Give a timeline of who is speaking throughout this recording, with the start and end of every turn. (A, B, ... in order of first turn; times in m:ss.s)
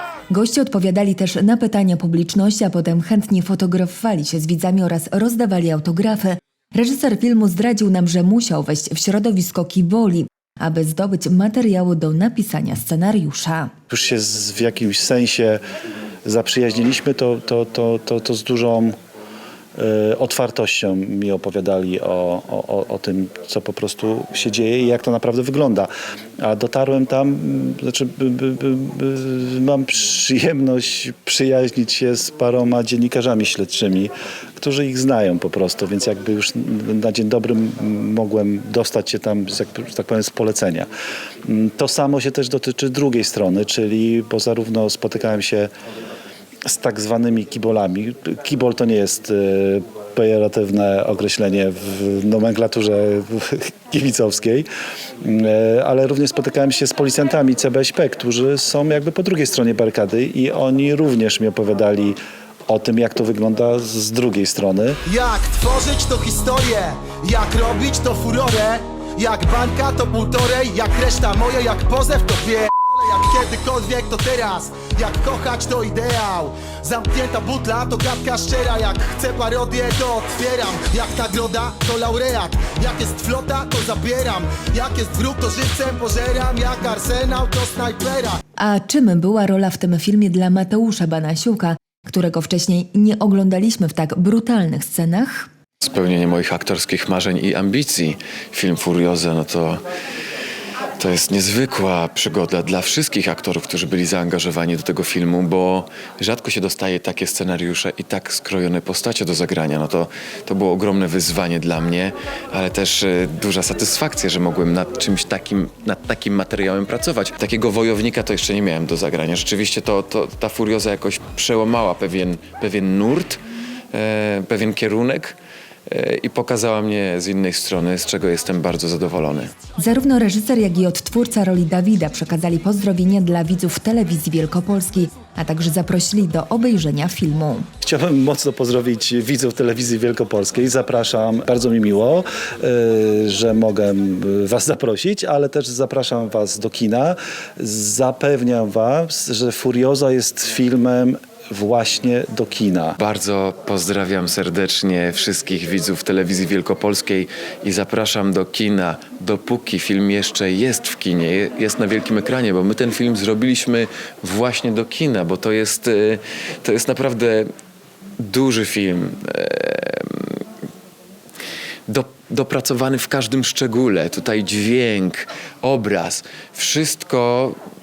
0:00.3-0:13.7 A
0:13.9-0:15.6 B
0:16.3-0:19.0 B
0:19.8-0:25.9 B
0:26.4-0:40.9 B
0:41.5-0:45.7 B
0:46.7-0:54.7 B
0:55.2-1:05.0 B
1:05.1-1:28.4 C
1:28.6-1:35.5 A
1:35.8-1:39.8 D
1:41.0-2:03.4 D
2:03.9-2:09.5 D
2:09.8-2:17.7 A
2:17.8-2:33.0 B
2:33.0-2:47.5 D
2:48.2-2:50.4 D
2:51.9-2:57.6 D